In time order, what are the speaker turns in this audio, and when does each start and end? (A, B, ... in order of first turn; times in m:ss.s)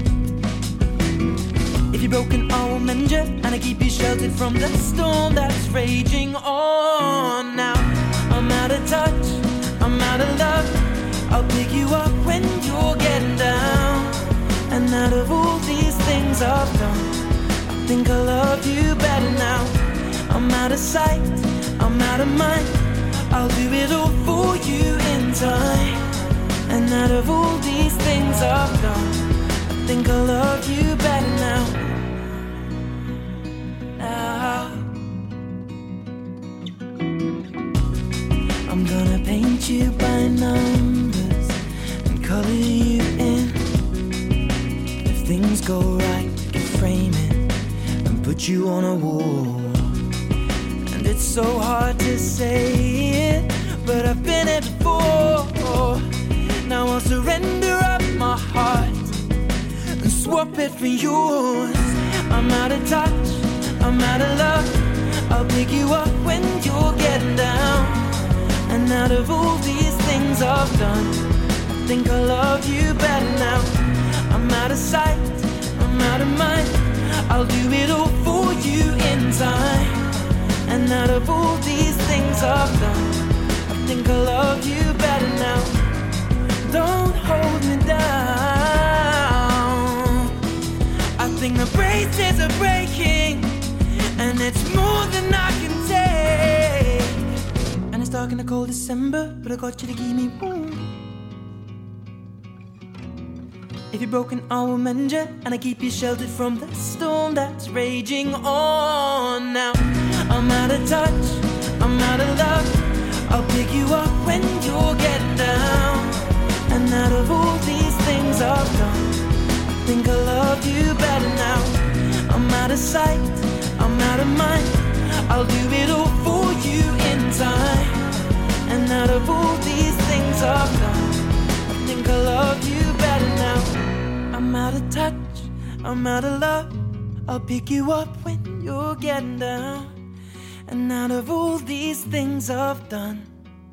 0:01.9-0:17.2 A
0:17.7-0:26.0 A
0:26.7-0:31.9 A
0:34.0-0:35.0 A
0:38.7-0:43.7 A
0:45.0-0:47.5 A
0:48.0-0:50.0 A
0:50.9-0:56.1 A
0:56.6-0:59.2 A
1:00.0-1:08.1 A
1:08.7-1:11.2 A
1:11.8-1:20.1 A
1:20.6-1:25.8 A
1:26.7-1:30.4 A
1:31.2-1:33.6 A
1:34.2-1:37.2 A
1:37.9-1:41.0 A
1:43.9-1:59.2 A
1:59.8-2:08.0 A
2:08.6-2:13.7 A
2:14.3-2:20.0 A
2:20.7-2:23.3 A